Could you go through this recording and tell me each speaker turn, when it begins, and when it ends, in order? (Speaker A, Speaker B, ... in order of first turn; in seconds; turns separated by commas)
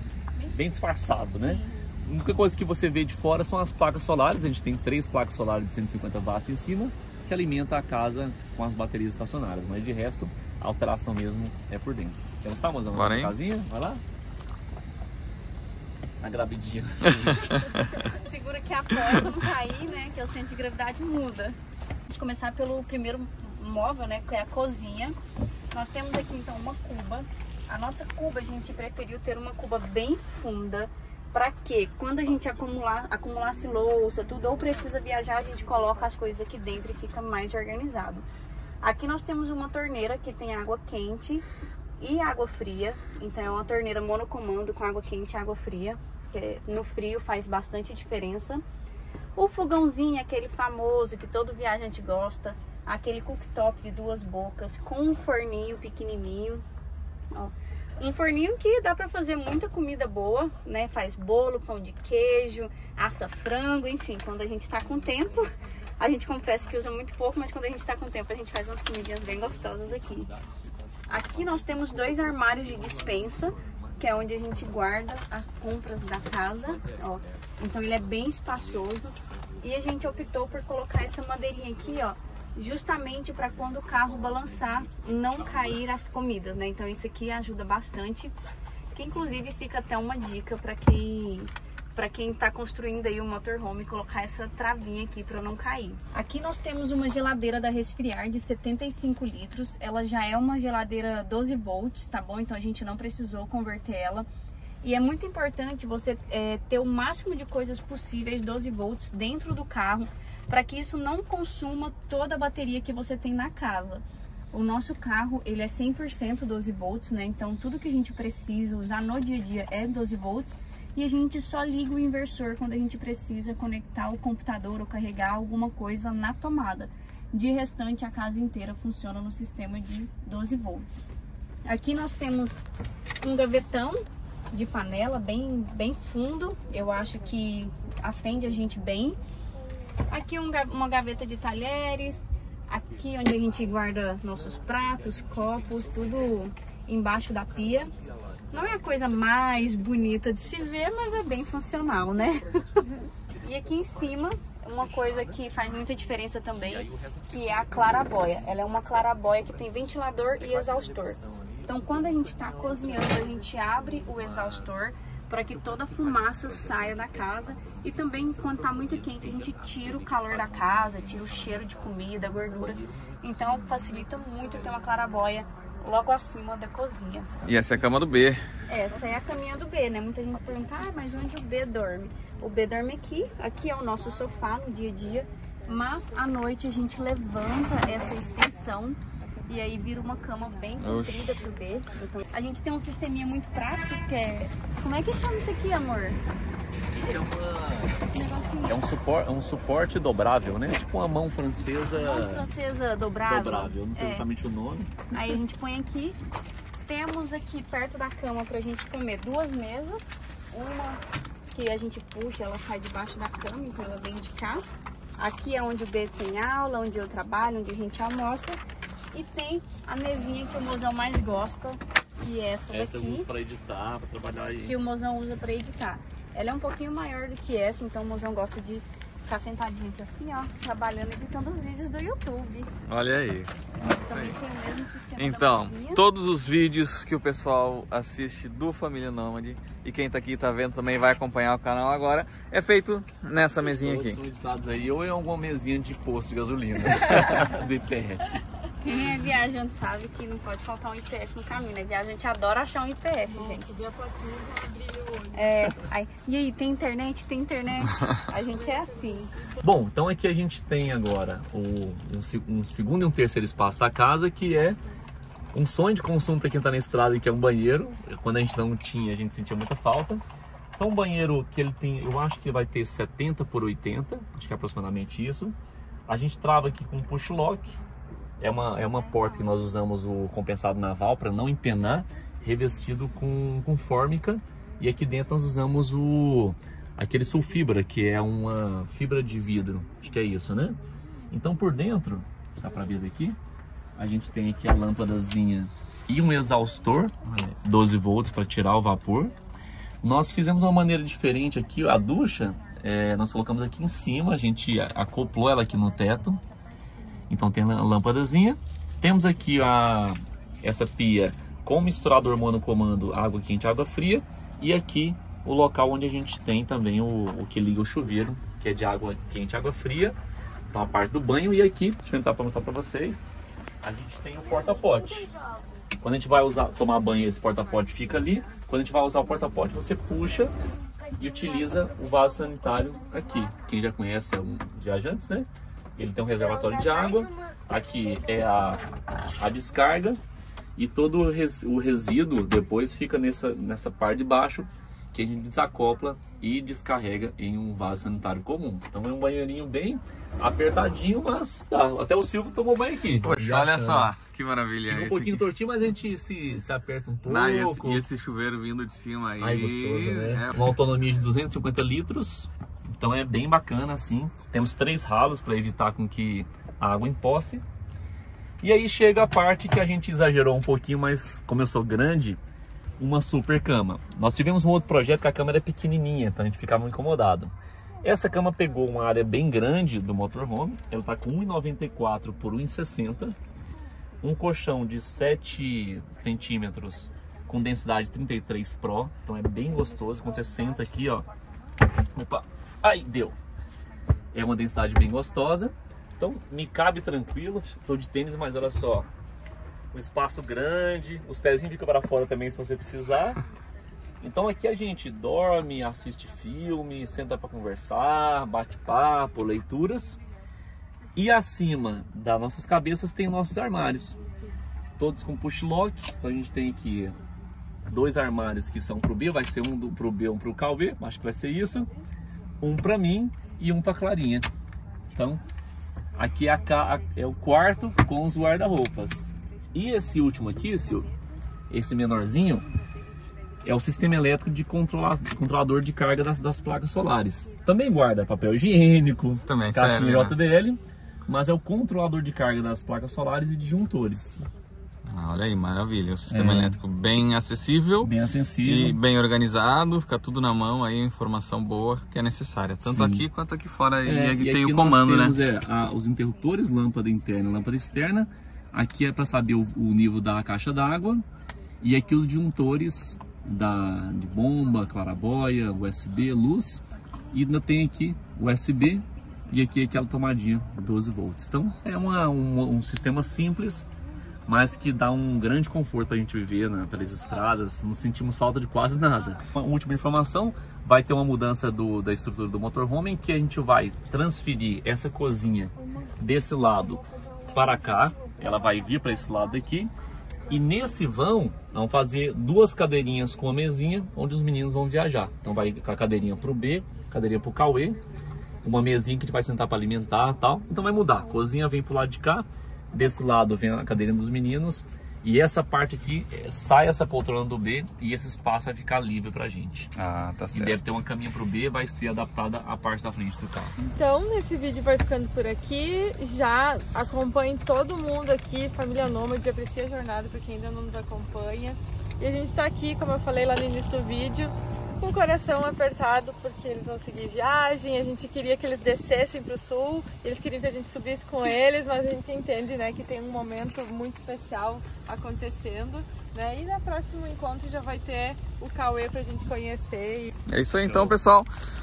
Speaker A: 0.3-1.9, Speaker B: 0.5-14.0, Speaker C: 12.9-13.3, Speaker B: 16.2-17.9, Speaker A: 18.0-21.6, Speaker A: 22.1-25.1, Speaker A: 25.7-38.2, Speaker A: 38.8-41.4, Speaker A: 42.0-48.6, Speaker A: 49.4-56.6, Speaker A: 57.3-70.3, Speaker B: 68.9-74.4, Speaker A: 71.1-88.3, Speaker B: 76.6-77.5, Speaker B: 83.4-85.8, Speaker A: 88.9-104.3, Speaker A: 104.8-131.0, Speaker A: 131.7-132.6, Speaker A: 133.2-134.0, Speaker A: 134.5-139.2, Speaker A: 140.1-147.9, Speaker A: 148.5-177.3, Speaker B: 153.2-155.4, Speaker B: 156.6-163.4, Speaker B: 163.9-164.9, Speaker B: 165.5-173.6, Speaker C: 177.4-178.4, Speaker A: 178.7-196.2, Speaker C: 190.8-191.4, Speaker B: 196.9-198.1, Speaker A: 198.0-198.8, Speaker B: 198.7-202.4, Speaker A: 201.9-204.2, Speaker B: 203.2-204.9, Speaker A: 205.1-206.2, Speaker A: 206.8-211.0, Speaker A: 211.5-214.6, Speaker A: 215.2-218.6, Speaker A: 219.1-223.3, Speaker B: 222.7-224.7, Speaker A: 224.6-232.7, Speaker C: 232.9-234.4, Speaker A: 233.8-236.0, Speaker C: 235.2-244.2, Speaker B: 243.6-248.2, Speaker A: 248.8-253.7, Speaker D: 253.3-255.7, Speaker A: 255.3-259.3, Speaker D: 258.3-259.6, Speaker B: 259.6-264.8, Speaker B: 265.5-270.2, Speaker B: 270.8-275.5, Speaker B: 276.1-277.8, Speaker B: 278.4-290.8, Speaker A: 278.9-279.6, Speaker B: 291.3-293.4, Speaker B: 294.0-299.3, Speaker B: 300.0-306.4, Speaker B: 307.3-320.1, Speaker B: 320.7-323.3, Speaker B: 323.8-325.3, Speaker B: 326.0-330.5, Speaker B: 331.2-338.8, Speaker A: 336.5-336.8, Speaker B: 339.4-340.2, Speaker B: 340.8-354.1, Speaker C: 353.2-355.5, Speaker B: 354.8-358.1, Speaker C: 357.2-360.6, Speaker B: 359.4-367.6, Speaker B: 368.6-372.4, Speaker B: 373.0-383.4, Speaker B: 384.2-391.3, Speaker B: 392.1-393.4, Speaker B: 394.3-399.1, Speaker B: 399.9-403.4, Speaker B: 404.2-410.2, Speaker B: 411.1-414.2, Speaker B: 415.0-417.2, Speaker B: 417.9-421.9, Speaker B: 422.6-424.5, Speaker B: 425.1-425.4, Speaker B: 426.1-431.1, Speaker B: 431.7-432.7, Speaker B: 433.6-444.4, Speaker C: 439.5-440.4, Speaker C: 445.1-448.1, Speaker B: 446.3-446.8, Speaker B: 448.0-449.0, Speaker C: 448.6-455.4, Speaker B: 452.8-453.3, Speaker B: 454.0-461.2, Speaker B: 461.8-473.9, Speaker B: 474.5-489.9, Speaker B: 490.5-498.0, Speaker B: 498.6-509.9, Speaker C: 509.9-511.0, Speaker B: 510.5-513.7, Speaker D: 513.8-540.3, Speaker C: 540.5-541.5, Speaker B: 540.8-541.2